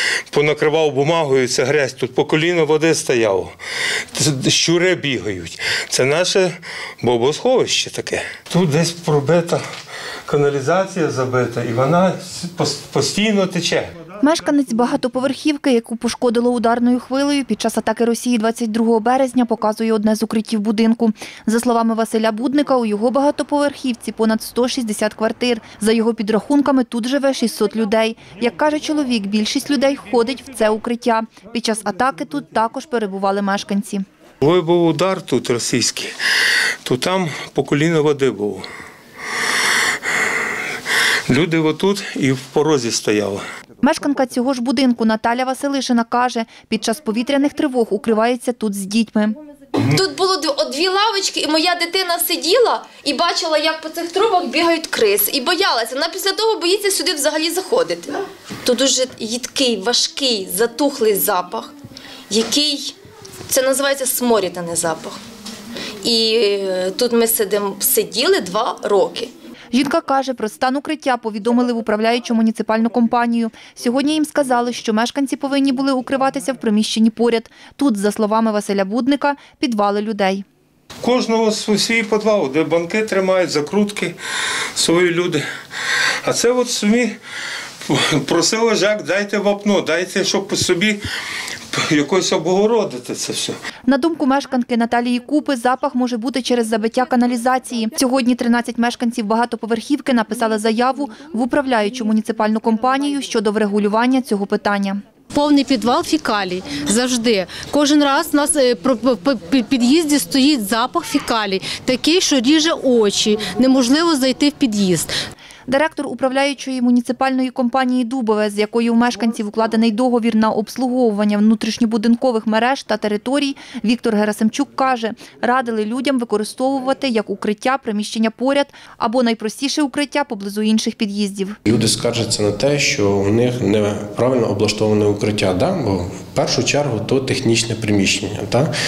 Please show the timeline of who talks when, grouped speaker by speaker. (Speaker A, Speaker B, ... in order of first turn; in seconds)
Speaker A: 0.3-3.5, 4.1-9.6, 10.3-13.9, 34.4-36.1, 36.8-38.6, 41.3-43.4, 81.0-84.2, 84.8-85.4, 86.2-87.2, 87.8-91.0, 91.7-93.6
Speaker B: 14.2-34.0, 43.8-49.4, 69.7-80.5, 93.9-105.0, 115.7-131.6
Speaker C: 49.8-61.7, 62.3-63.0, 63.5-65.2, 66.0-69.3
Speaker D: 105.3-115.1
Speaker E: 131.7-138.7